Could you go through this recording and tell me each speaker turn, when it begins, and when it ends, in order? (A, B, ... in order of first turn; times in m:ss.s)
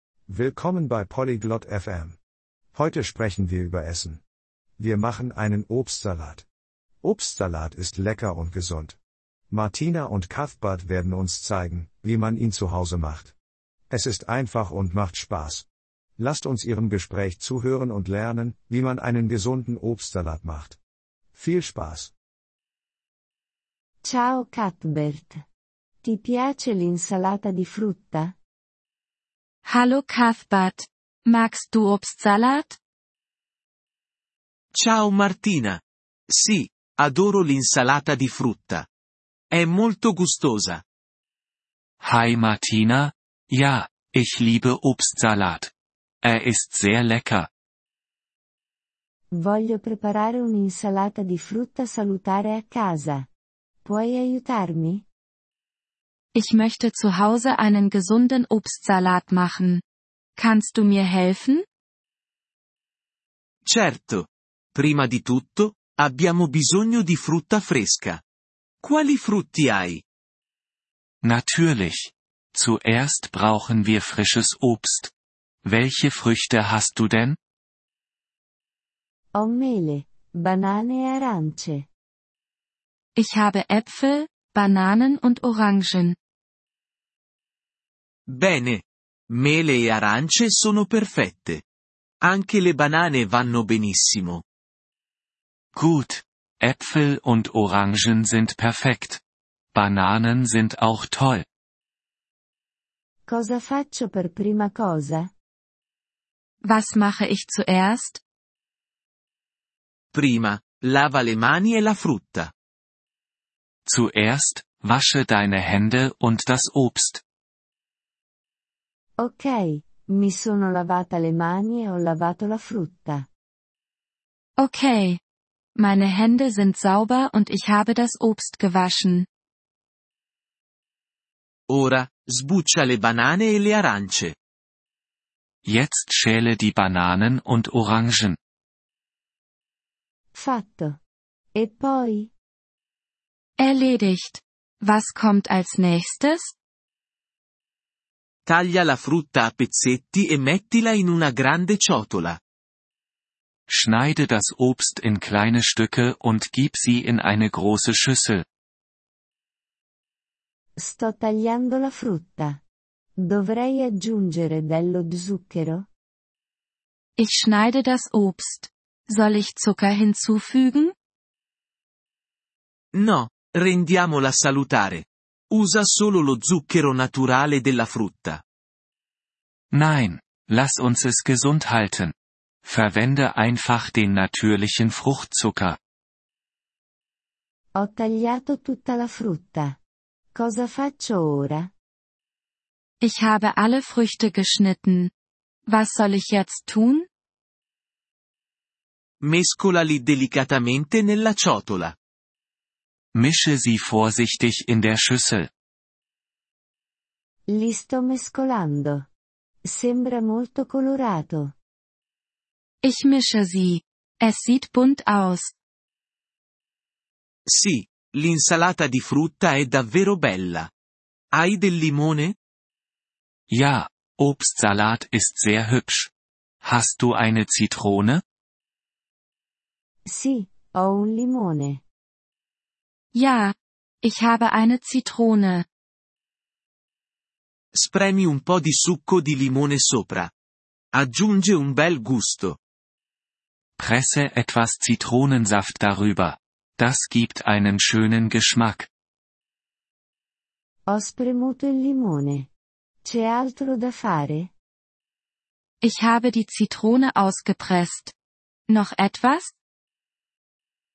0:00.3-0:02.2 A
0:02.7-0:04.2 A
0:04.8-0:06.4 A
0:07.0-0:09.0 A
0:09.5-0:13.3 A
0:13.9-0:15.6 A
0:16.2-0:20.8 A
0:21.3-0:22.1 A
0:24.0-0:25.4 B
0:26.0-0:28.4 B
0:29.6-0:32.8 C
0:34.7-0:38.9 D
0:39.5-0:40.8 D
0:42.0-0:47.5 E
0:49.3-0:53.3 B
0:53.8-0:55.0 B
0:56.3-0:59.8 C
1:00.4-1:01.6 C
1:03.6-1:08.2 D
1:08.8-1:10.0 D
1:11.2-1:15.1 E
1:15.6-1:17.4 E
1:19.3-1:21.9 B
1:23.2-1:26.2 C
1:28.3-1:31.6 D
1:32.2-1:34.4 D
1:35.7-1:39.2 E
1:39.7-1:41.4 E
1:43.3-1:45.3 B
1:46.6-1:48.2 C
1:50.1-1:52.5 D
1:53.8-1:57.2 E
1:59.2-2:03.3 B
2:04.6-2:05.2 C
2:05.8-2:09.3 C
2:11.7-2:14.3 D
2:15.6-2:18.4 E
2:20.3-2:21.0 B
2:21.5-2:22.3 B
2:23.6-2:26.5 C
2:28.4-2:32.4 D
2:33.7-2:38.4 E
2:40.8-2:42.6 B
2:43.2-2:45.9 B
2:47.2-2:50.9 C
2:52.9-2:58.4 D
2:59.7-3:02.1 E
3:02.6-3:05.8 E
3:07.7-3:09.8 B
3:10.3-3:11.7 B
3:13.0-3:15.1 C
3:15.7-3:17.1 C
3:19.2-3:22.0 D
3:23.1-3:25.5 E
3:27.5-3:29.1 B
3:29.7-3:31.5 B
3:32.8-3:35.5 C
3:37.5-3:40.7 D
3:41.3-3:42.4 D
3:43.5-3:46.1 E
3:46.6-3:48.2 E
3:50.0-3:51.8 B
3:53.1-3:55.6 C
3:57.7-4:00.3 D
4:00.9-4:02.6 D
4:03.8-4:08.9 E
4:10.9-4:12.5 B
4:13.0-4:14.5 B
4:15.8-4:18.1 C
4:18.7-4:19.5 C